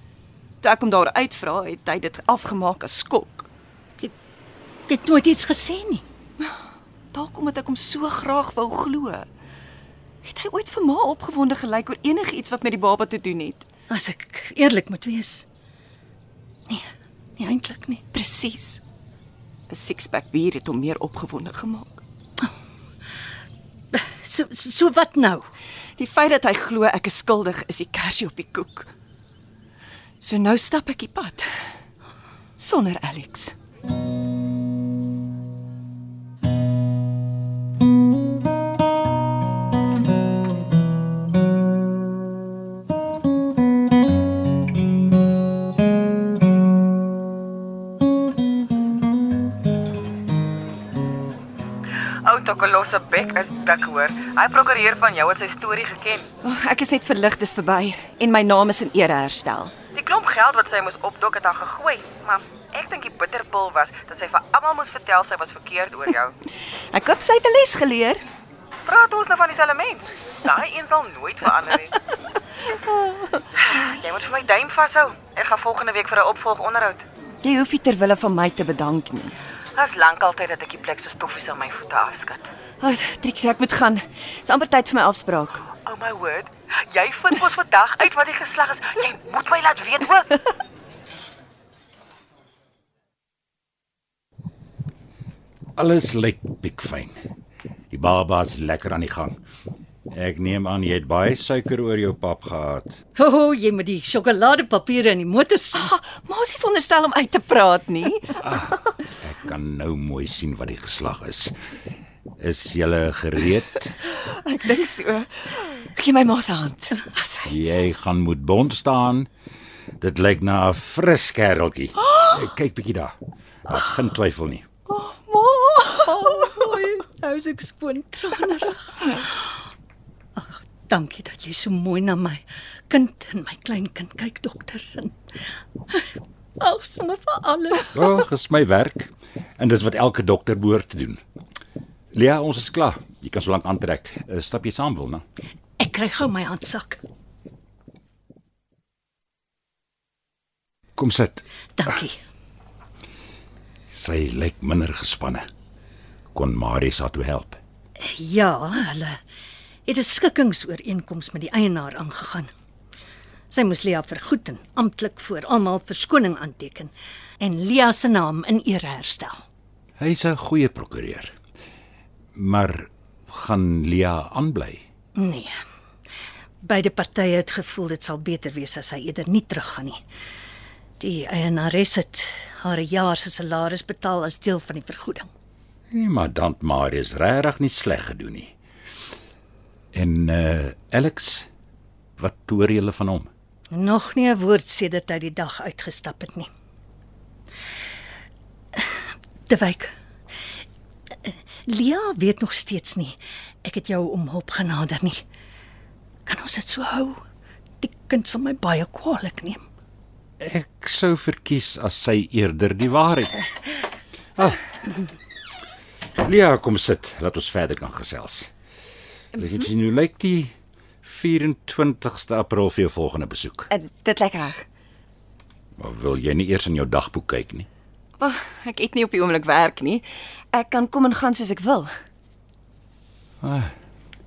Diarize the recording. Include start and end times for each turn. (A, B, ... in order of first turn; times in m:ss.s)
0:00.6-0:03.5 A
0:04.9-0:06.0 B
0:07.1-0:09.3 A
0:10.2-0:13.7 A
0:13.9-0:15.5 B
0:16.7-0:18.0 B
0:18.1-0:18.8 A
0:19.7-0:22.0 A
0:23.9-0:25.5 B
0:26.0-0:28.9 A
0:30.2-0:31.5 A
0:32.6-0:33.6 A
0:52.2-0:56.3 C
0:56.4-0:59.7 A
1:00.0-1:06.3 C
1:06.9-1:08.2 A
1:08.9-1:12.0 C
1:12.8-1:13.4 A
1:13.7-1:17.0 C
1:17.4-1:19.4 A
1:19.8-1:22.5 C
1:22.8-1:25.6 A
1:25.8-1:30.4 C
1:35.8-1:37.2 D
1:37.9-1:39.4 D
1:40.1-1:43.0 D
1:43.2-1:45.9 B
1:45.8-1:48.8 A
1:48.4-1:51.6 D
1:52.4-1:54.0 D
1:54.1-1:57.5 A
1:57.4-1:59.3 D
2:00.0-2:04.6 D
2:04.9-2:06.5 A
2:05.9-2:09.6 B
2:10.4-2:15.2 B
2:16.6-2:18.1 B
2:17.9-2:21.2 D
2:22.1-2:25.2 D
2:25.8-2:27.0 B
2:31.0-2:31.4 D
2:31.8-2:32.2 B
2:33.9-2:35.5 D
2:36.3-2:37.6 D
2:38.0-2:39.2 B
2:39.9-2:42.5 B
2:43.5-2:49.4 B
2:50.0-2:51.3 D
2:52.4-2:54.8 D
2:55.2-2:55.6 B
2:56.6-3:00.0 B
3:01.0-3:05.3 B
3:05.9-3:08.5 D
3:09.9-3:11.5 D
3:12.2-3:13.3 D
3:13.7-3:16.5 B
3:18.8-3:19.9 B
3:21.2-3:25.2 B
3:26.3-3:27.2 B
3:27.8-3:29.6 B
3:30.4-3:33.4 D
3:36.2-3:38.5 D
3:39.3-3:43.7 D
3:43.7-3:44.7 A
3:45.8-3:47.7 D
3:48.2-3:51.9 A
3:53.4-3:53.7 D